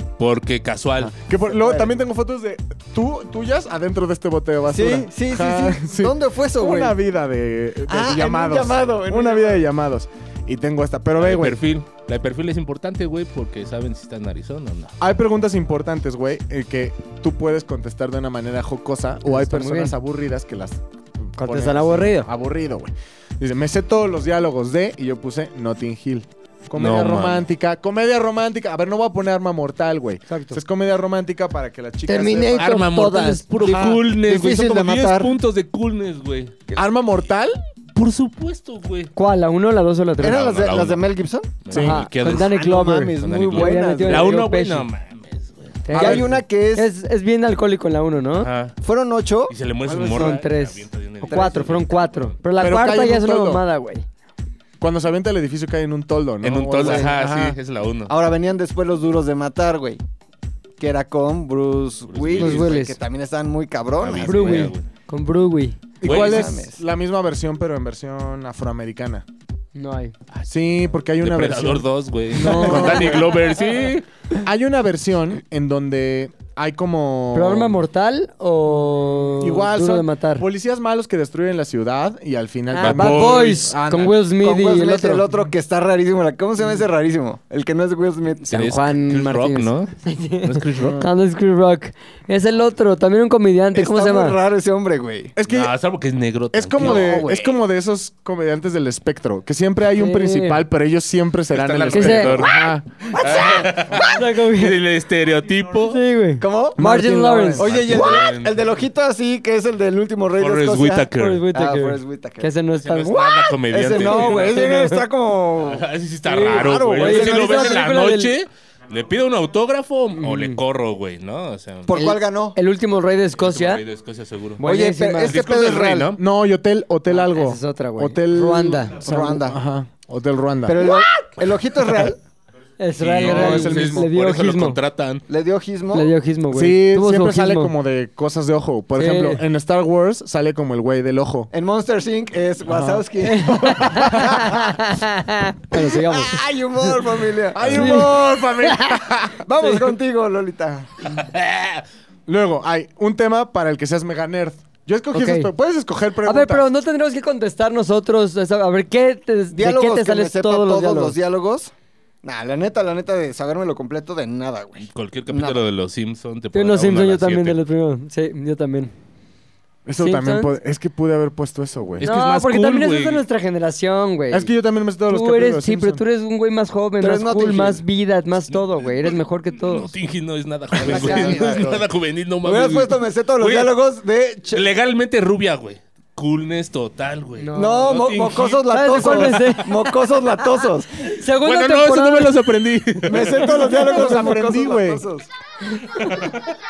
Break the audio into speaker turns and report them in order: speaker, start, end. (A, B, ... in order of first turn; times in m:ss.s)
0:00.2-0:01.1 A
0:01.2-0:11.6 B
0:01.5-0:01.9 C
0:04.7-0:07.0 C
0:07.9-0:09.6 C
0:11.2-0:15.0 A
0:15.0-0:32.7 B
0:19.3-0:20.0 D
0:21.4-0:22.3 D
0:26.8-0:27.4 A
0:30.3-0:30.6 D
0:32.1-0:33.4 D
0:32.6-0:36.6 A
0:33.6-0:35.3 C
0:36.8-0:37.6 B
0:38.0-0:39.1 A
0:39.2-0:40.4 D
0:40.2-0:41.6 C
0:40.2-0:41.1 A
0:41.6-0:42.6 A
0:41.7-0:42.0 B
0:41.7-0:44.9 D
0:42.3-0:44.4 C
0:43.2-0:45.8 A
0:45.8-0:48.5 D
0:45.9-0:46.9 C
0:45.9-0:46.3 B
0:48.4-0:48.8 A
0:48.8-0:49.6 C
0:49.5-0:52.4 A
0:50.0-0:54.0 D
0:51.3-0:51.6 C
0:52.6-0:53.6 B
0:54.8-0:57.6 B
0:56.4-0:58.1 A
0:56.8-0:57.1 C
0:58.1-1:00.0 C
1:00.8-1:04.7 C
1:02.1-1:02.8 A
1:02.4-1:03.0 D
1:04.0-1:04.9 A
1:04.2-1:05.8 D
1:06.0-1:09.2 B
1:06.0-1:06.5 A
1:06.0-1:06.8 C
1:09.8-1:10.1 D
1:10.5-1:13.3 B
1:11.2-1:14.1 A
1:12.4-1:12.9 D
1:14.4-1:17.8 B
1:17.3-1:20.4 D
1:19.4-1:24.2 B
1:22.7-1:25.2 D
1:22.8-1:23.6 A
1:24.4-1:28.5 C
1:28.5-1:34.4 D
1:28.5-1:31.0 A
1:30.8-1:31.1 C
1:33.7-1:35.4 C
1:35.4-1:35.7 B
1:35.5-1:37.3 A
1:36.5-1:42.9 B
1:36.8-1:37.6 C
1:40.0-1:40.6 D
1:41.5-1:46.0 A
1:41.9-1:42.4 D
1:43.1-1:44.2 C
1:43.9-1:44.8 D
1:45.8-1:47.7 D
1:46.4-1:46.8 C
1:46.8-1:48.0 B
1:47.6-1:52.5 C
1:47.6-1:48.8 A
1:50.4-1:51.5 A
1:51.2-1:55.0 D
1:52.8-1:54.8 A
1:53.7-1:55.8 C
1:55.7-2:01.9 A
1:56.3-1:58.3 D
1:56.4-1:57.8 C
2:00.2-2:00.6 D
2:01.9-2:02.6 C
2:01.9-2:03.8 D
2:03.4-2:04.6 A
2:04.6-2:05.4 D
2:04.6-2:06.2 C
2:05.2-2:06.2 A
2:06.2-2:10.9 B
2:07.1-2:09.4 D
2:09.0-2:09.6 C
2:10.7-2:12.2 C
2:12.8-2:14.8 D
2:13.0-2:15.2 A
2:13.2-2:14.1 B
2:15.3-2:16.2 C
2:15.9-2:17.7 D
2:16.5-2:21.5 B
2:19.0-2:19.4 D
2:21.5-2:24.5 C
2:22.7-2:23.0 B
2:23.2-2:26.4 D
2:23.7-2:24.5 B
2:25.7-2:28.0 C
2:27.5-2:29.4 B
2:27.7-2:29.0 D
2:29.4-2:31.0 C
2:31.1-2:31.8 A
2:32.3-2:36.7 B
2:35.1-2:35.5 D
2:36.2-2:41.2 D
2:39.5-2:41.7 C
2:42.2-2:45.6 C
2:44.8-2:47.6 A
2:46.5-2:48.9 D
2:49.9-2:52.1 B
2:50.0-2:50.5 D
2:52.0-2:53.2 A
2:52.0-2:54.5 D
2:54.3-2:56.0 B
2:55.1-2:59.9 D
2:57.0-2:57.8 C
2:58.5-3:03.8 A
3:00.8-3:01.9 C
3:00.8-3:01.5 D
3:02.4-3:04.6 C
3:04.5-3:09.6 A
3:07.4-3:07.9 D
3:07.6-3:11.0 C
3:08.7-3:09.8 D
3:11.0-3:12.4 D
3:11.4-3:13.7 A
3:13.0-3:15.3 C
3:13.4-3:15.0 B